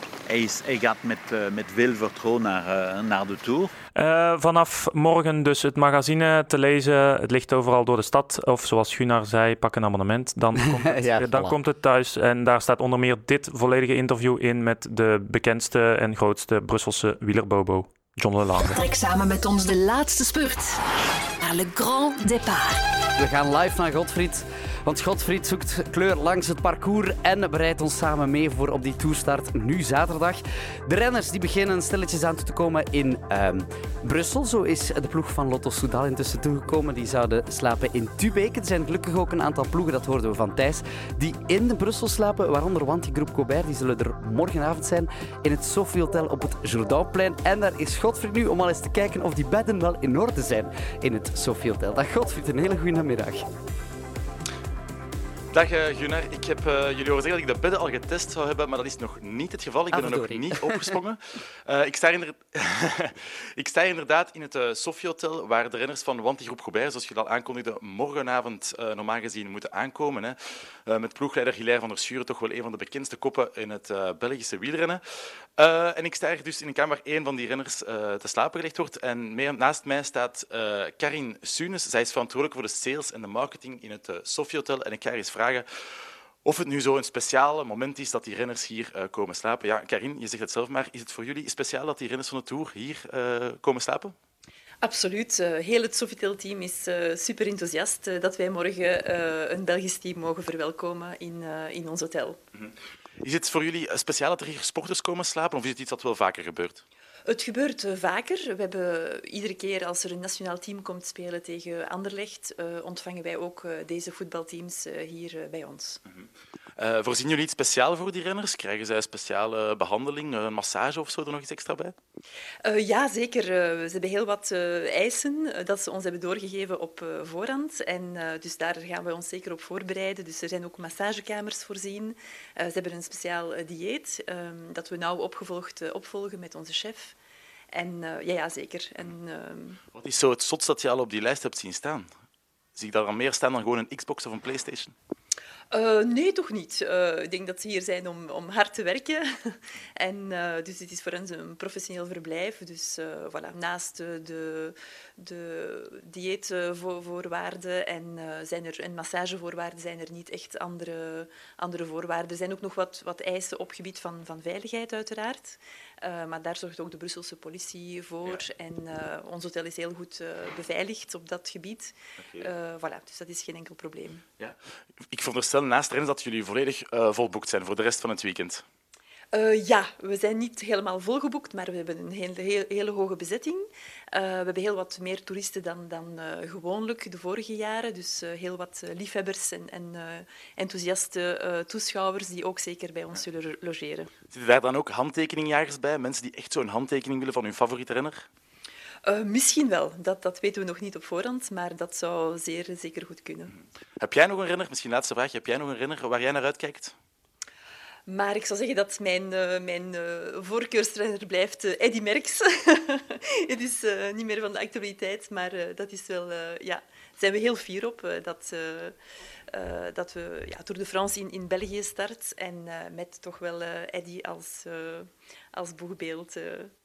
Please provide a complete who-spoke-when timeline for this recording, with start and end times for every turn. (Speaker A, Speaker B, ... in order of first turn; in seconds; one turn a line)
Speaker A: 0.2-3.7
Speaker B: 3.9-18.8
Speaker C: 10.6-11.6
Speaker D: 18.6-20.8
Speaker D: 21.4-22.8
Speaker C: 23.1-53.5
Speaker E: 55.5-75.0
Speaker C: 59.9-61.0
Speaker E: 75.6-85.7
Speaker E: 86.4-94.2
Speaker F: 94.8-102.4
Speaker E: 103.2-106.8
Speaker F: 107.2-116.0
Speaker E: 116.8-122.0
Speaker F: 122.6-137.2
Speaker F: 137.7-139.8
Speaker E: 139.9-142.1
Speaker E: 142.7-144.9
Speaker F: 145.7-174.2
Speaker E: 175.1-178.6
Speaker F: 179.3-194.1
Speaker E: 194.3-198.3
Speaker F: 199.1-203.5
Speaker E: 204.0-206.9
Speaker F: 208.1-218.9
Speaker F: 219.5-226.7